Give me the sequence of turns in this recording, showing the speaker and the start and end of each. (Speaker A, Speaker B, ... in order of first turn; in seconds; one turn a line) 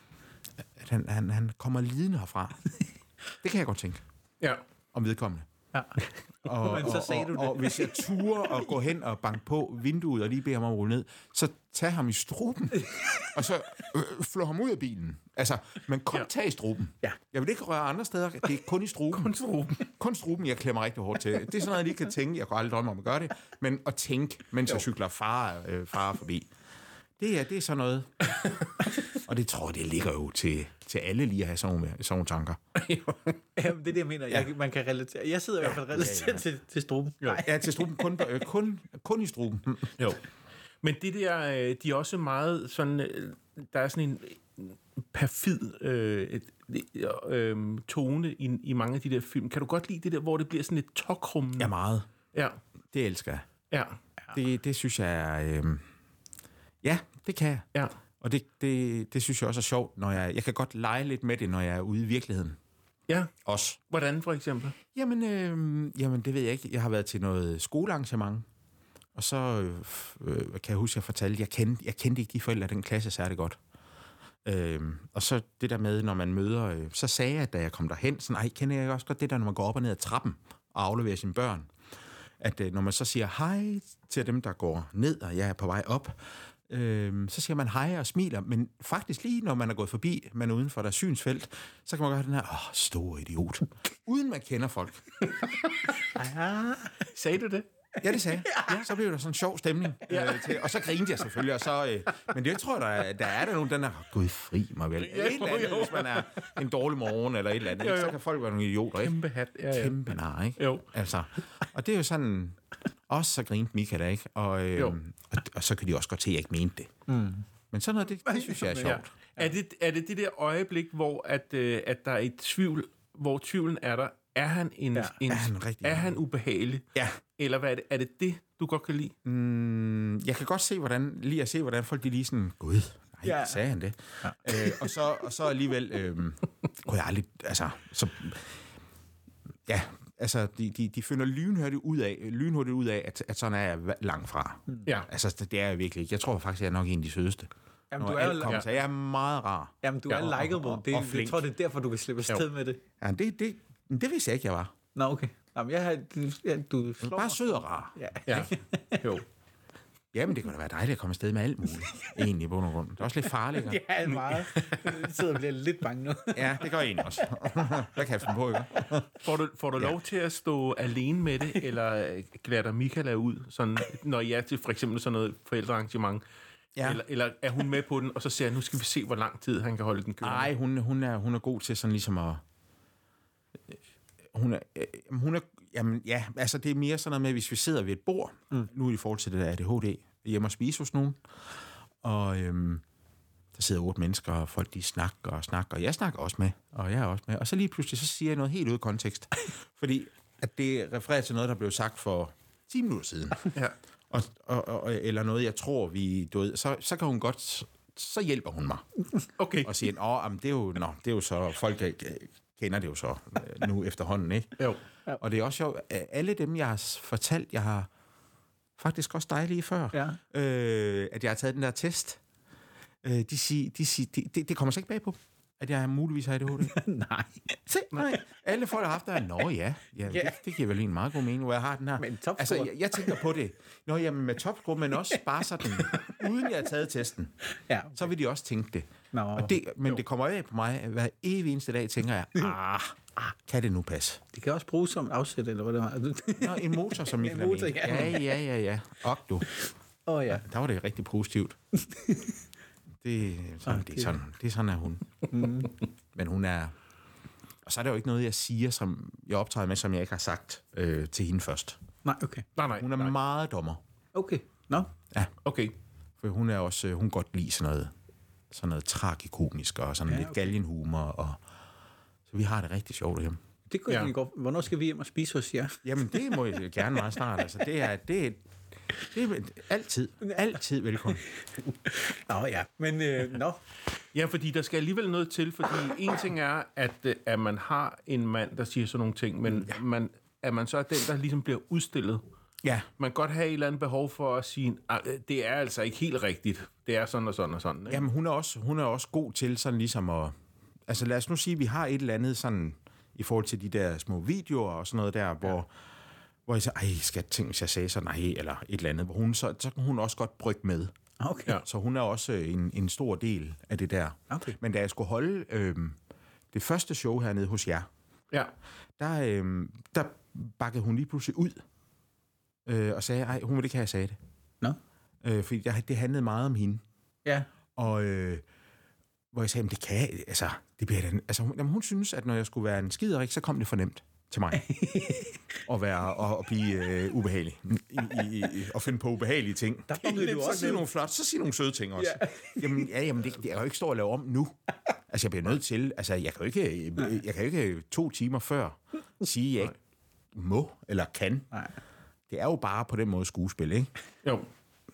Speaker A: 0.8-2.7
Speaker A: 3.4-4.0
Speaker A: 4.9-5.5
Speaker B: 5.7-8.2
Speaker A: 6.4-26.5
Speaker B: 12.9-13.2
Speaker C: 19.1-19.9
Speaker A: 27.2-28.3
Speaker A: 29.1-32.6
Speaker C: 32.8-33.4
Speaker B: 33.6-38.2
Speaker A: 35.6-36.4
Speaker A: 37.4-39.9
Speaker C: 40.8-51.7
Speaker A: 51.6-52.1
Speaker C: 52.3-52.6
Speaker A: 52.9-53.5
Speaker C: 53.7-54.0
Speaker A: 54.3-55.8
Speaker A: 56.8-57.7
Speaker A: 58.2-62.6
Speaker A: 63.5-63.8
Speaker C: 63.9-64.8
Speaker A: 64.9-68.5
Speaker A: 69.2-73.6
Speaker A: 74.5-81.7
Speaker A: 82.4-95.2
Speaker B: 96.0-97.0
Speaker C: 97.0-97.7
Speaker A: 98.0-109.2
Speaker B: 98.5-98.7
Speaker C: 100.1-100.6
Speaker C: 105.0-106.5
Speaker C: 107.8-108.2
Speaker C: 109.0-110.0
Speaker A: 109.7-112.6
Speaker C: 110.6-110.9
Speaker A: 113.1-116.9
Speaker B: 117.1-117.5
Speaker A: 117.7-119.1
Speaker B: 118.2-119.5
Speaker C: 118.8-129.1
Speaker B: 125.0-125.2
Speaker A: 125.3-126.2
Speaker A: 129.2-138.6
Speaker B: 133.2-133.6
Speaker B: 134.2-134.9
Speaker A: 139.7-151.4
Speaker B: 147.9-148.7
Speaker B: 149.8-152.8
Speaker A: 153.0-154.7
Speaker B: 154.9-159.1
Speaker A: 157.0-157.9
Speaker C: 158.3-159.2
Speaker A: 160.1-163.8
Speaker B: 163.5-167.8
Speaker A: 166.3-169.2
Speaker C: 169.2-176.2
Speaker A: 176.8-177.0
Speaker C: 176.8-180.5
Speaker A: 180.2-182.4
Speaker A: 184.3-191.2
Speaker A: 192.0-192.8
Speaker A: 193.5-203.5
Speaker A: 204.1-208.8
Speaker C: 209.4-209.8
Speaker A: 209.6-214.7
Speaker A: 215.2-217.9
Speaker A: 218.8-222.2
Speaker B: 219.9-220.2
Speaker A: 223.0-226.8
Speaker B: 226.7-227.6
Speaker A: 227.7-237.3
Speaker B: 230.1-230.4
Speaker B: 232.0-233.2
Speaker B: 235.8-236.1
Speaker B: 237.7-238.1
Speaker A: 237.9-244.2
Speaker B: 239.1-239.6
Speaker B: 244.3-248.4
Speaker A: 246.4-249.5
Speaker B: 250.1-250.4
Speaker A: 250.3-251.6
Speaker B: 251.8-252.3
Speaker A: 253.0-255.1
Speaker B: 253.7-254.2
Speaker B: 255.3-255.7
Speaker A: 256.1-256.7
Speaker A: 257.6-261.8
Speaker B: 262.0-262.5
Speaker C: 262.6-263.1
Speaker A: 262.8-263.8
Speaker B: 264.1-264.9
Speaker C: 265.4-265.7
Speaker A: 266.2-267.9
Speaker A: 268.5-271.4
Speaker B: 270.1-270.5
Speaker A: 272.3-273.4
Speaker B: 273.7-276.0
Speaker C: 273.9-274.1
Speaker A: 275.8-278.4
Speaker A: 279.1-281.2
Speaker B: 281.7-283.6
Speaker C: 284.1-292.2
Speaker C: 293.0-298.1
Speaker A: 297.9-300.3
Speaker A: 300.9-305.7
Speaker A: 306.5-310.9
Speaker B: 311.2-311.6
Speaker A: 311.6-316.0
Speaker B: 314.3-314.6
Speaker A: 316.5-317.9
Speaker A: 319.0-321.6
Speaker A: 322.7-324.2
Speaker A: 325.2-326.8
Speaker A: 327.8-328.4
Speaker A: 329.3-334.7
Speaker B: 334.5-335.4
Speaker A: 335.7-344.6
Speaker B: 339.9-340.9
Speaker B: 342.0-342.9
Speaker A: 345.1-349.7
Speaker A: 350.3-351.5
Speaker A: 352.3-353.9